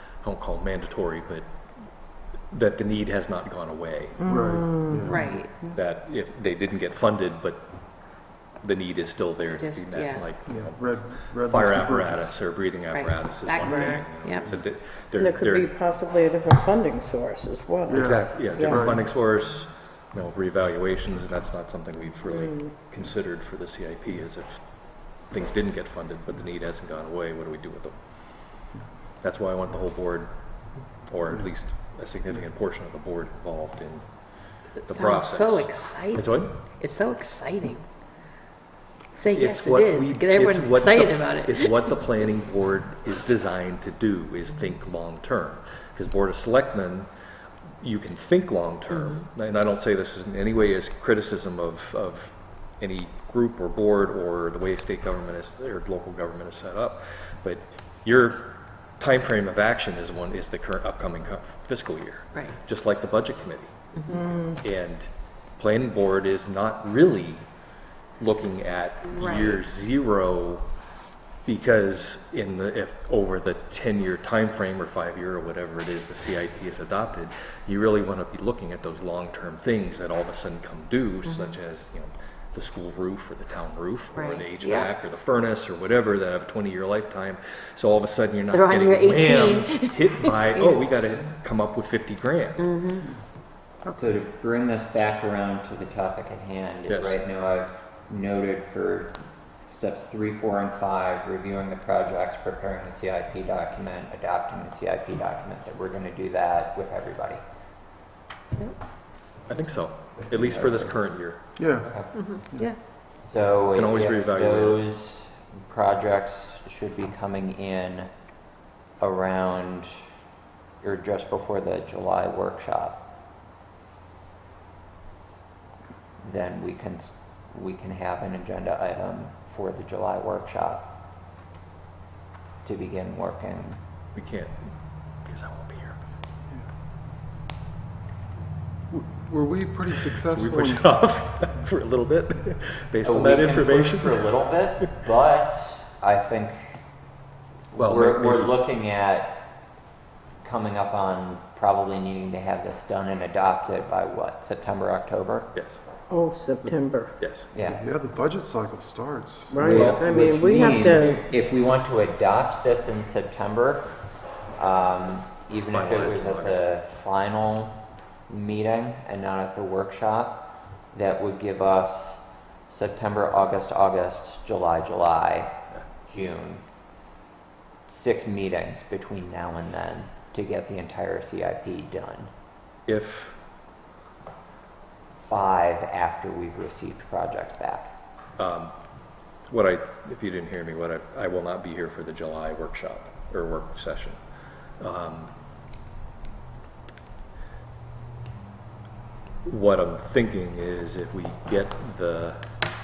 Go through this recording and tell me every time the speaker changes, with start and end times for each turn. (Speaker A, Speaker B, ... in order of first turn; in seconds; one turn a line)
Speaker A: 0.2-1.5
Speaker A: 2.5-4.2
Speaker B: 4.2-5.2
Speaker C: 4.3-5.8
Speaker D: 5.0-5.5
Speaker A: 5.7-7.7
Speaker A: 8.6-15.7
Speaker D: 9.5-10.2
Speaker C: 10.5-12.4
Speaker D: 12.9-14.5
Speaker C: 13.6-14.0
Speaker B: 15.2-19.0
Speaker C: 17.9-19.1
Speaker A: 17.9-28.0
Speaker A: 29.2-30.6
Speaker A: 31.1-34.0
Speaker D: 34.8-37.8
Speaker A: 34.9-36.6
Speaker D: 39.2-41.9
Speaker A: 39.3-47.1
Speaker A: 47.8-63.7
Speaker D: 64.0-64.2
Speaker B: 64.1-64.6
Speaker A: 64.4-67.4
Speaker A: 68.2-70.7
Speaker D: 69.1-69.6
Speaker A: 71.5-92.8
Speaker D: 81.3-81.6
Speaker D: 84.2-84.9
Speaker D: 88.5-90.8
Speaker D: 92.6-93.0
Speaker E: 93.9-107.4
Speaker A: 96.9-97.2
Speaker A: 109.5-111.6
Speaker E: 110.2-111.0
Speaker C: 111.6-111.9
Speaker E: 111.8-112.4
Speaker D: 112.1-112.8
Speaker E: 113.2-118.1
Speaker A: 113.7-114.8
Speaker E: 119.0-119.9
Speaker E: 120.8-123.1
Speaker E: 126.2-130.9
Speaker E: 132.6-133.8
Speaker A: 134.2-134.7
Speaker A: 135.2-136.0
Speaker C: 138.9-140.9
Speaker A: 140.1-144.9
Speaker E: 143.0-146.8
Speaker A: 147.7-148.6
Speaker E: 147.7-149.5
Speaker E: 150.4-155.5
Speaker A: 155.5-155.8
Speaker B: 156.1-157.1
Speaker A: 156.7-157.5
Speaker E: 157.5-157.8
Speaker C: 157.6-160.0
Speaker B: 159.5-161.2
Speaker E: 159.6-163.9
Speaker A: 159.6-160.1
Speaker E: 164.6-176.6
Speaker A: 165.7-166.7
Speaker E: 177.9-182.3
Speaker A: 182.9-183.4
Speaker E: 185.3-187.9
Speaker A: 188.4-188.8
Speaker A: 189.5-194.2
Speaker A: 194.8-195.3
Speaker A: 199.5-202.5